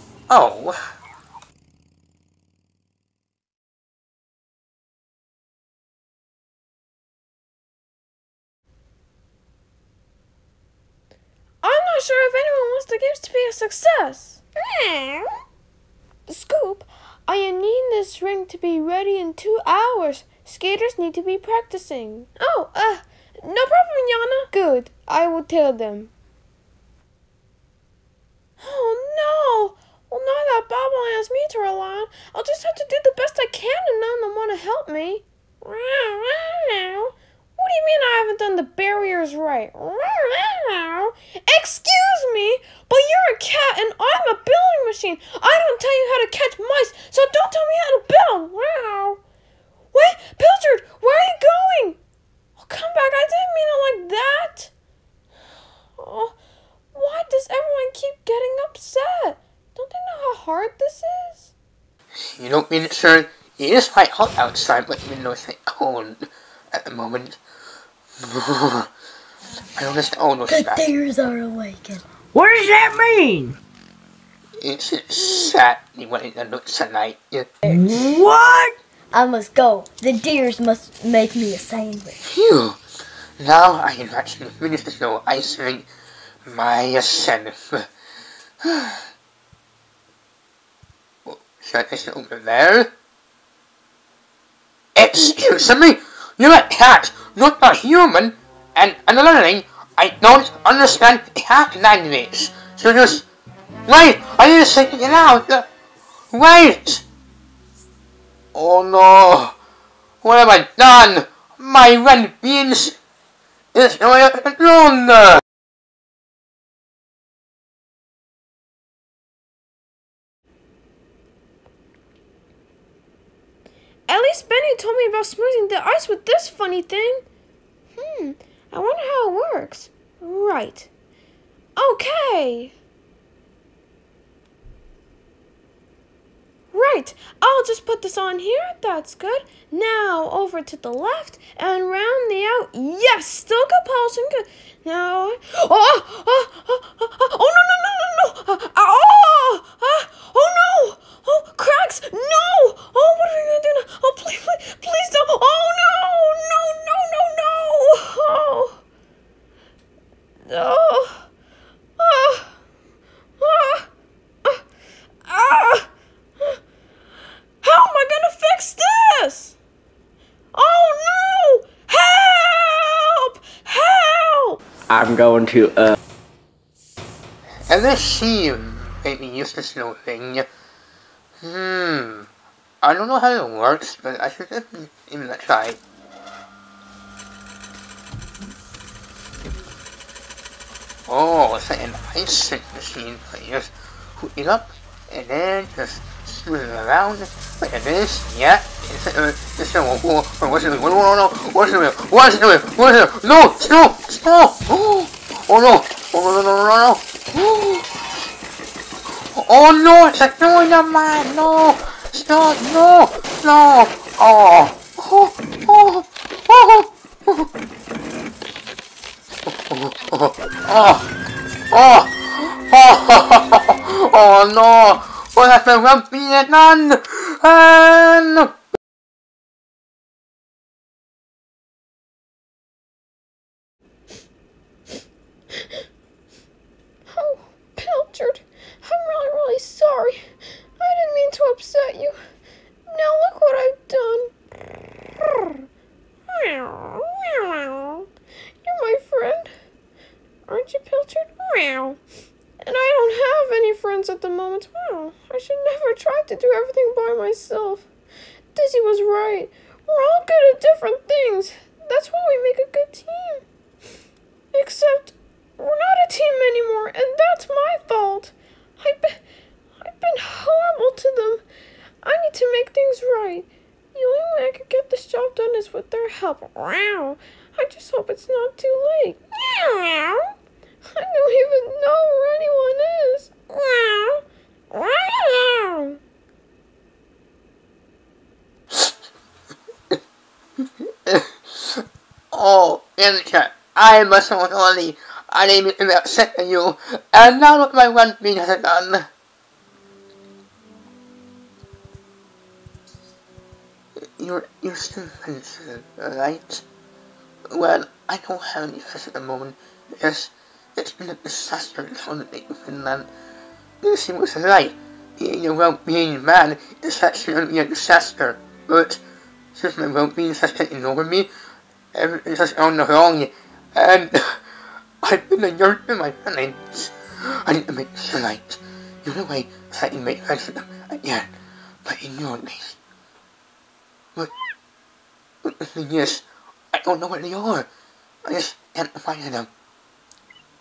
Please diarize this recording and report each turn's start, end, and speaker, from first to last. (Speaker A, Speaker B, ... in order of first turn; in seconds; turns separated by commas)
Speaker A: 0.3-0.8, Speaker B: 11.6-15.3, Speaker B: 16.3-26.1, Speaker B: 28.6-49.2, Speaker B: 49.9-52.0, Speaker B: 52.6-54.7, Speaker B: 56.0-56.4, Speaker B: 56.9-61.5, Speaker A: 62.2-67.4, Speaker A: 68.2-68.9, Speaker A: 69.8-70.8, Speaker C: 70.5-72.0, Speaker D: 72.3-73.6, Speaker A: 74.6-77.5, Speaker D: 77.7-78.8, Speaker C: 79.1-82.2, Speaker A: 82.2-82.8, Speaker A: 83.4-85.9, Speaker A: 86.5-87.9, Speaker A: 88.6-89.0, Speaker A: 91.3-92.9, Speaker A: 95.0-103.3, Speaker A: 103.9-105.7, Speaker A: 106.3-107.0, Speaker A: 108.5-109.6, Speaker A: 110.2-113.0, Speaker A: 113.7-115.4, Speaker B: 124.1-127.3, Speaker B: 128.0-130.9, Speaker B: 131.8-132.7, Speaker B: 136.7-158.8, Speaker B: 160.5-161.3, Speaker B: 162.0-162.5, Speaker B: 163.4-163.9, Speaker B: 165.3-165.9, Speaker B: 167.6-169.6, Speaker B: 170.5-174.6, Speaker D: 174.9-176.0, Speaker A: 177.7-180.5, Speaker A: 181.4-182.3, Speaker A: 182.8-185.8, Speaker A: 191.1-207.9, Speaker A: 209.3-217.5, Speaker A: 219.5-221.1, Speaker A: 221.7-228.6, Speaker B: 237.1-240.2, Speaker B: 240.8-242.2, Speaker B: 242.9-244.3, Speaker B: 245.2-245.5, Speaker B: 246.3-248.1, Speaker B: 248.6-249.5, Speaker B: 250.5-252.0, Speaker B: 252.6-257.9, Speaker B: 258.6-263.4, Speaker B: 264.5-269.2, Speaker B: 269.8-271.4, Speaker B: 272.0-280.3, Speaker B: 280.9-286.0, Speaker A: 291.1-299.1, Speaker A: 304.2-306.6, Speaker A: 307.5-313.1, Speaker A: 313.8-319.0, Speaker A: 319.5-321.3, Speaker A: 321.9-324.4, Speaker A: 325.0-331.3, Speaker A: 331.9-332.8, Speaker A: 335.4-337.7, Speaker A: 338.3-339.5